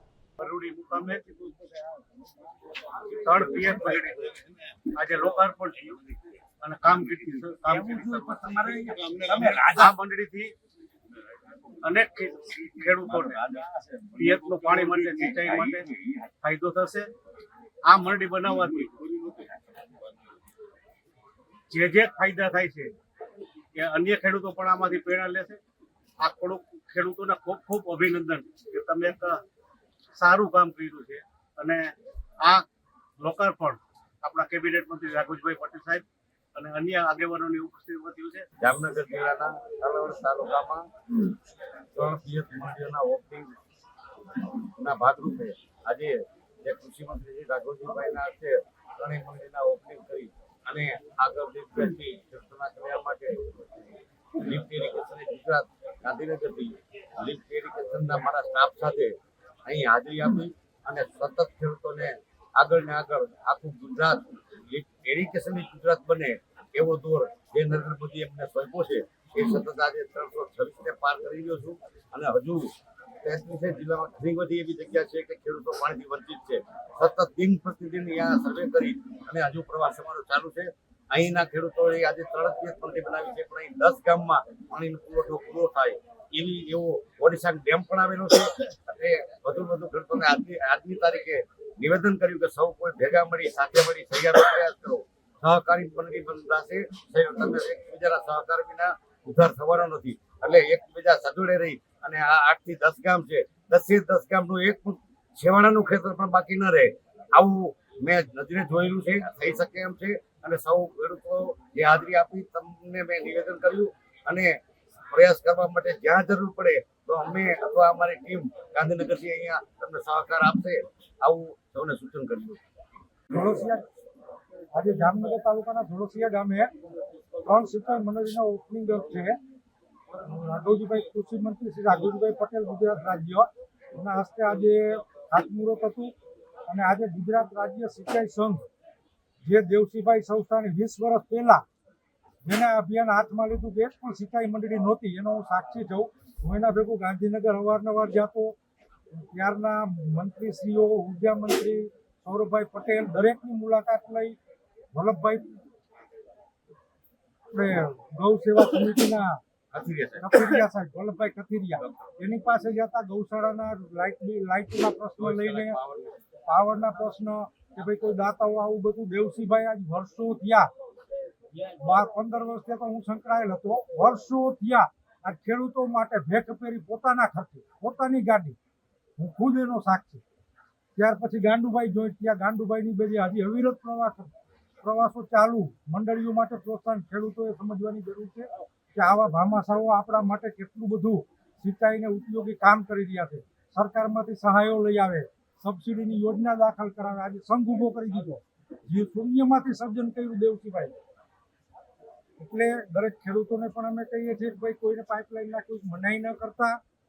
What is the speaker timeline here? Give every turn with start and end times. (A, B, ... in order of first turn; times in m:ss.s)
0:00.4-0:02.0 A
0:03.0-0:04.4 A
0:04.9-0:08.5 A
0:07.6-0:10.0 B
0:09.6-0:10.5 A
0:11.8-0:13.4 A
0:13.2-0:15.9 B
0:14.2-0:15.9 A
0:16.4-0:17.1 A
0:17.9-0:19.4 A
0:21.7-0:22.9 A
0:23.8-0:25.6 A
0:26.2-0:29.4 A
0:30.2-0:31.9 A
0:33.2-0:36.0 A
0:36.6-0:38.4 A
0:38.6-0:41.3 B
0:42.0-0:43.6 B
0:44.8-0:53.4 B
0:54.4-0:59.1 B
0:59.7-1:12.7 B
1:13.2-1:54.5 B
1:55.1-2:02.6 B
2:03.3-2:03.8 C
2:04.7-2:06.7 C
2:07.4-2:09.4 C
2:10.2-2:16.1 C
2:16.7-2:18.7 C
2:19.4-2:21.6 C
2:22.4-2:28.6 C
2:29.1-2:34.4 C
2:35.0-2:35.5 C
2:37.5-2:39.4 C
2:39.7-2:40.6 B
2:40.2-2:45.8 C
2:41.8-2:42.1 B
2:45.2-2:46.2 B
2:46.5-2:50.7 C
2:51.8-2:58.6 C
2:59.2-3:00.2 C
3:01.0-3:20.9 C
3:22.4-3:26.8 C